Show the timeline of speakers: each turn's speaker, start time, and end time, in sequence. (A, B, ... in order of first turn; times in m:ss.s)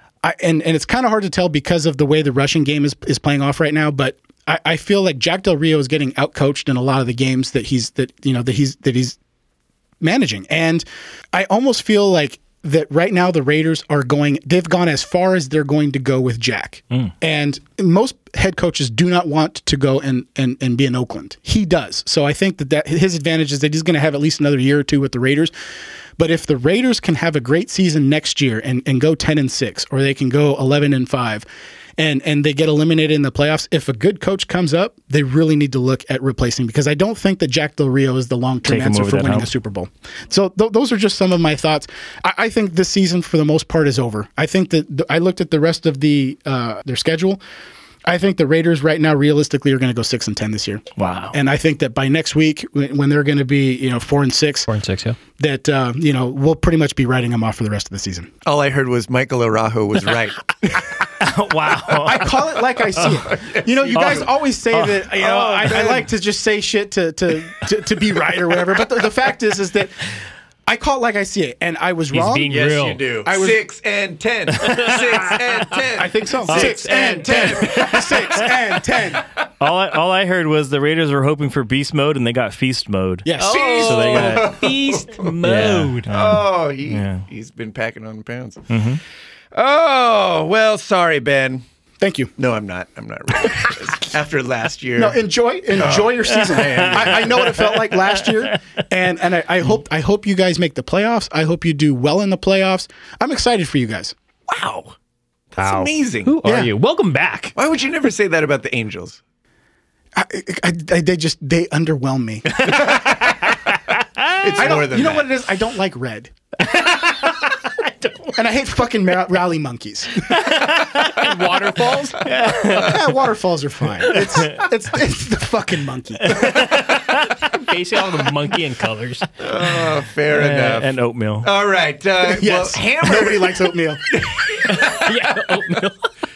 0:00.2-0:09.2 A
0:10.0-0:25.5 A
0:26.2-0:31.4 A
0:32.0-0:47.4 A
0:38.6-0:39.5 B
0:48.0-0:54.7 A
0:51.0-0:51.4 B
0:54.7-0:55.2 C
0:55.4-0:58.3 A
0:58.4-1:00.4 D
1:01.2-1:02.3 B
1:01.9-1:09.9 A
1:03.0-1:04.3 D
1:03.9-1:04.2 B
1:04.9-1:05.8 B
1:05.3-1:06.0 D
1:10.6-1:12.6 A
1:12.1-1:13.0 C
1:12.5-1:18.4 D
1:13.2-1:13.6 A
1:16.0-1:19.2 A
1:19.6-1:24.6 B
1:23.2-1:23.6 A
1:23.4-1:26.1 C
1:23.5-1:25.4 D
1:25.4-1:27.2 B
1:26.1-1:28.7 D
1:28.7-1:29.0 B
1:29.5-1:31.6 D
1:32.0-1:32.3 A
1:32.4-1:35.2 D
1:35.0-1:44.1 A
1:35.8-1:37.5 D
1:44.5-1:44.9 D
1:45.5-1:46.4 D
1:45.6-1:47.5 C
1:46.4-1:46.7 A
1:47.5-1:49.2 D
1:50.2-1:52.8 A
1:52.6-1:53.1 D
1:54.4-1:55.3 D
1:54.6-1:56.3 A
1:58.4-2:00.4 A
2:01.2-2:02.2 C
2:02.2-2:03.0 B
2:02.7-2:06.4 A
2:04.1-2:04.6 B
2:07.5-2:09.3 C
2:09.4-2:15.8 D
2:10.3-2:11.5 B
2:12.2-2:14.0 A
2:14.7-2:15.9 C